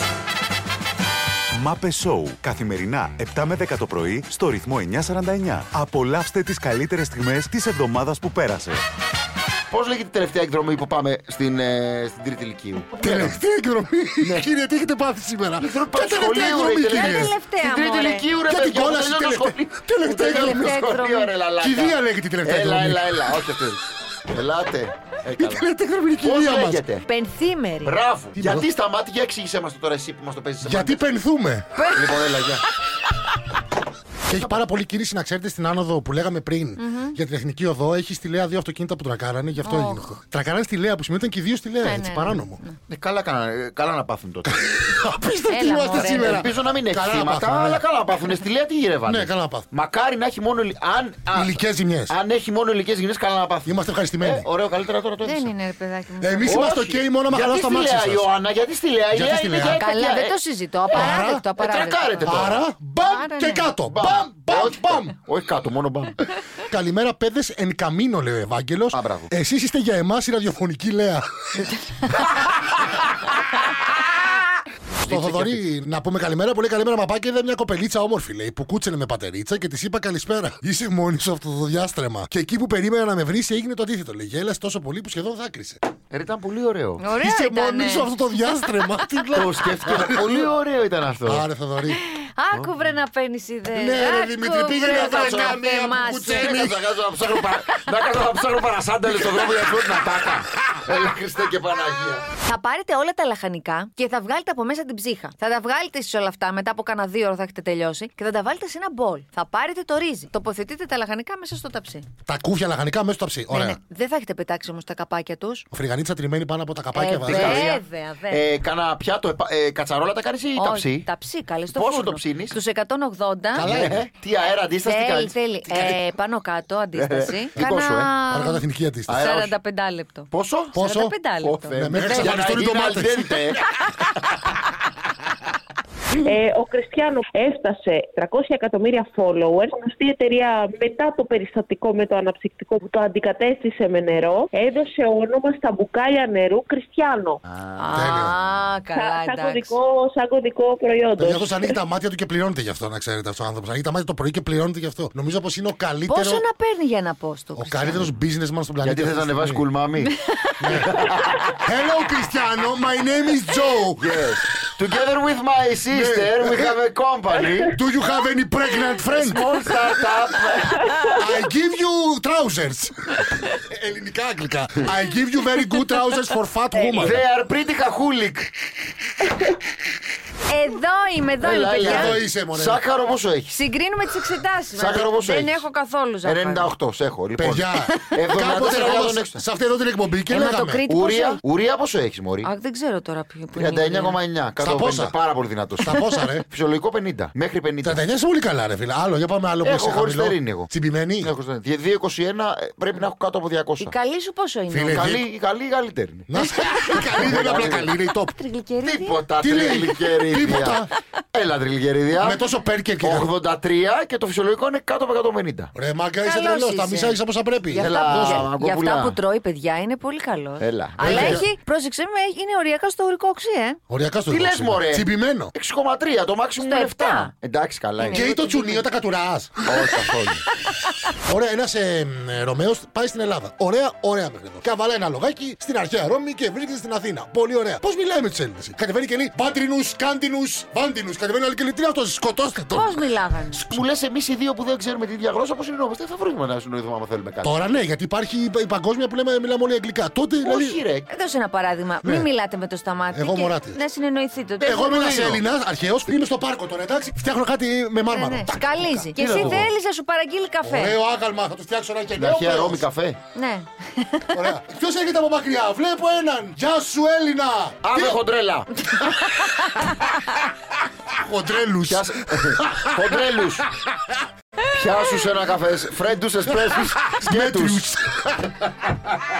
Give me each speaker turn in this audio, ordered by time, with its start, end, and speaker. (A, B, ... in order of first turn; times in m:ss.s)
0:01.6-0:08.8 A
0:09.7-0:13.4 B
0:13.0-0:17.4 C
0:15.6-0:25.7 B
0:16.3-0:18.3 D
0:18.5-0:20.9 C
0:20.1-0:21.3 D
0:21.6-0:23.3 C
0:25.4-0:26.8 C
0:26.2-0:27.0 B
0:27.1-0:28.0 D
0:27.8-0:31.0 B
0:28.4-0:28.7 C
0:30.6-0:31.8 C
0:31.8-0:32.2 D
0:31.9-0:32.6 B
0:34.3-0:42.6 C
0:34.4-0:34.6 B
0:36.8-0:37.2 D
0:39.6-0:40.2 D
0:41.8-0:42.8 D
0:42.9-0:44.6 B
0:44.4-0:47.8 C
0:45.5-0:46.4 D
0:46.0-0:55.5 B
0:49.1-0:49.7 C
0:51.3-0:52.2 C
0:53.6-0:54.5 C
0:55.2-0:56.8 D
0:56.2-0:58.3 C
0:56.5-1:02.7 B
0:59.1-0:59.8 C
0:59.7-1:03.7 D
1:00.9-1:01.5 C
1:02.2-1:05.2 C
1:03.9-1:06.2 B
1:06.7-1:11.7 C
1:08.9-1:09.3 B
1:14.9-1:15.6 B
1:15.0-1:25.8 C
1:26.1-1:27.0 B
1:27.0-1:28.1 D
1:27.2-1:30.6 C
1:28.6-1:29.1 D
1:29.4-1:31.4 B
1:31.2-1:32.0 C
1:32.0-1:36.6 D
1:33.7-1:36.8 C
1:34.7-1:35.6 B
1:36.2-1:42.3 B
1:39.0-1:39.9 C
1:42.4-1:52.1 D
1:52.3-1:53.8 C
1:53.5-1:55.7 D
1:55.7-1:57.7 C
1:56.9-1:58.4 D
1:57.2-2:01.1 B
2:00.6-2:03.7 D
2:01.7-2:02.6 B
2:03.5-2:04.0 C
2:03.6-2:05.9 B
2:04.8-2:08.6 D
2:07.0-2:08.1 B
2:08.3-2:09.2 C
2:09.1-2:09.6 B
2:09.2-2:12.5 D
2:10.3-2:10.8 B
2:10.7-2:11.2 C
2:11.4-2:13.6 B
2:11.7-2:13.3 C
2:16.2-2:27.4 E
2:27.4-2:28.2 B
2:27.8-2:29.8 D
2:27.9-2:28.4 C
2:28.9-2:31.8 E
2:31.2-2:36.4 C
2:36.1-2:38.0 D
2:37.6-2:39.6 C
2:38.8-2:40.1 B
2:40.1-2:41.0 D
2:40.6-2:41.0 C
2:40.7-2:41.6 B
2:41.6-2:44.6 C
2:44.0-2:47.8 B
2:45.9-2:46.8 C
2:47.7-2:49.6 C
2:49.1-2:50.9 B
2:51.1-2:57.2 C
2:57.0-2:58.5 B
3:00.5-3:02.2 D
3:01.4-3:03.6 B
3:01.8-3:02.8 C
3:03.5-3:06.7 D
3:04.8-3:05.6 B
3:06.2-3:09.4 B
3:07.4-3:10.8 C
3:10.3-3:11.4 D
3:10.9-3:12.5 B
3:12.4-3:14.2 D
3:13.6-3:15.9 B
3:14.6-3:15.2 C
3:15.8-3:16.5 C
3:15.8-3:16.2 D
3:16.4-3:18.0 B
3:17.8-3:21.3 C
3:19.6-3:24.0 B
3:23.8-3:25.1 D
3:24.7-3:25.2 C
3:24.9-3:27.9 B
3:26.3-3:28.4 C
3:28.3-3:29.2 D
3:28.8-3:30.8 B
3:29.4-3:30.9 C
3:31.3-3:32.4 B
3:32.2-3:33.3 C
3:33.0-3:35.7 B
3:35.8-3:38.5 C
3:36.2-3:43.8 D
3:37.7-3:39.2 B
3:40.6-3:41.5 B
3:41.0-3:41.5 C
3:43.9-3:45.5 C
3:44.3-3:48.2 B
3:46.6-3:47.3 D
3:48.0-3:48.9 D
3:48.1-3:50.0 C
3:49.7-3:50.4 B
3:51.2-4:03.8 C
4:02.7-4:03.6 D
4:03.7-4:07.6 B
4:07.4-4:10.8 C
4:10.4-4:11.1 B
4:11.1-4:15.2 D
4:12.0-4:12.3 C
4:13.1-4:13.8 C
4:14.6-4:15.4 B
4:14.6-4:19.7 C
4:18.1-4:21.0 D
4:19.2-4:19.7 B
4:20.6-4:22.8 C
4:22.2-4:23.2 B
4:23.4-4:24.4 D
4:24.3-4:28.2 C
4:27.8-4:28.7 B
4:28.9-4:29.8 D
4:31.1-4:33.6 C
4:31.9-4:33.7 B
4:34.7-4:37.8 B
4:36.5-4:38.6 C